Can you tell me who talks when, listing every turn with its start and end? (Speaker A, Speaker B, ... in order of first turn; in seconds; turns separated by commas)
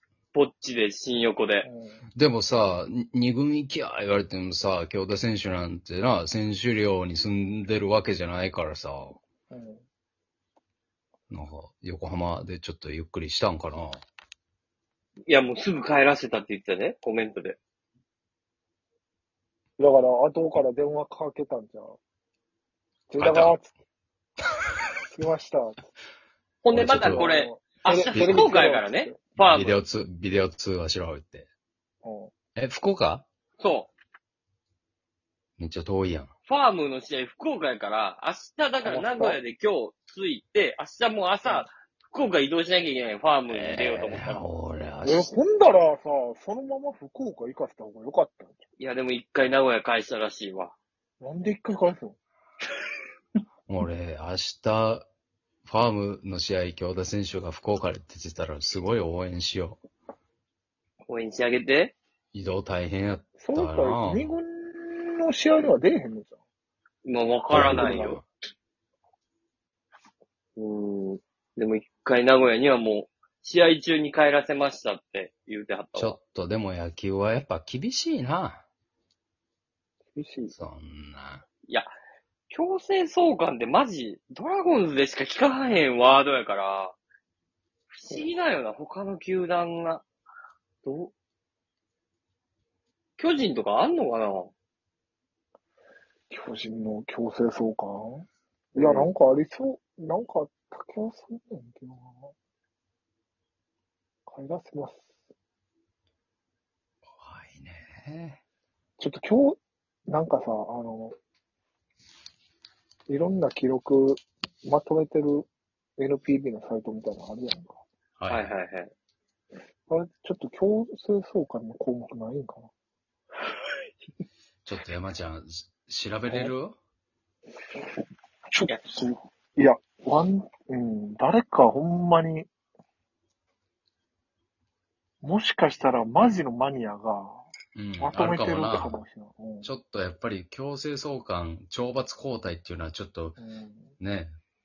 Speaker A: 0.3-1.7, Speaker B: 1.6-2.1, Speaker C: 2.1-9.2, Speaker B: 9.5-9.8, Speaker C: 11.3-14.0, Speaker A: 15.3-17.6, Speaker B: 19.8-22.0, Speaker B: 23.1-23.7, Speaker C: 23.2-23.6, Speaker B: 25.1-25.8, Speaker A: 26.6-29.8, Speaker C: 26.7-27.3, Speaker B: 26.7-29.4, Speaker C: 28.1-28.6, Speaker C: 29.4-31.5, Speaker B: 32.0-32.3, Speaker C: 32.6-33.3, Speaker A: 33.6-33.9, Speaker C: 35.6-36.3, Speaker A: 36.5-44.5, Speaker B: 38.8-39.4, Speaker B: 41.4-41.7, Speaker C: 43.5-45.3, Speaker B: 45.0-48.6, Speaker A: 48.8-50.7, Speaker B: 51.2-52.2, Speaker C: 53.7-55.1, Speaker C: 55.7-59.8, Speaker A: 61.1-62.0, Speaker C: 62.3-64.3, Speaker B: 63.4-66.4, Speaker A: 67.0-68.2, Speaker C: 67.5-68.2, Speaker A: 70.6-76.2, Speaker C: 76.0-78.6, Speaker B: 80.1-80.5, Speaker C: 80.5-81.5, Speaker A: 82.5-87.0, Speaker A: 87.9-90.0, Speaker A: 90.8-91.1, Speaker A: 93.2-94.5, Speaker B: 96.3-102.3, Speaker A: 98.8-99.1, Speaker B: 104.3-105.1, Speaker C: 107.2-108.4, Speaker B: 109.0-111.1, Speaker B: 113.1-117.8, Speaker C: 118.2-118.5, Speaker A: 118.3-118.9, Speaker B: 119.9-122.7, Speaker C: 124.7-126.8, Speaker B: 126.3-126.5, Speaker B: 128.5-132.5, Speaker B: 135.2-137.4, Speaker C: 137.8-139.0, Speaker B: 138.0-139.7, Speaker C: 139.6-143.4, Speaker B: 143.4-144.0, Speaker C: 144.0-144.3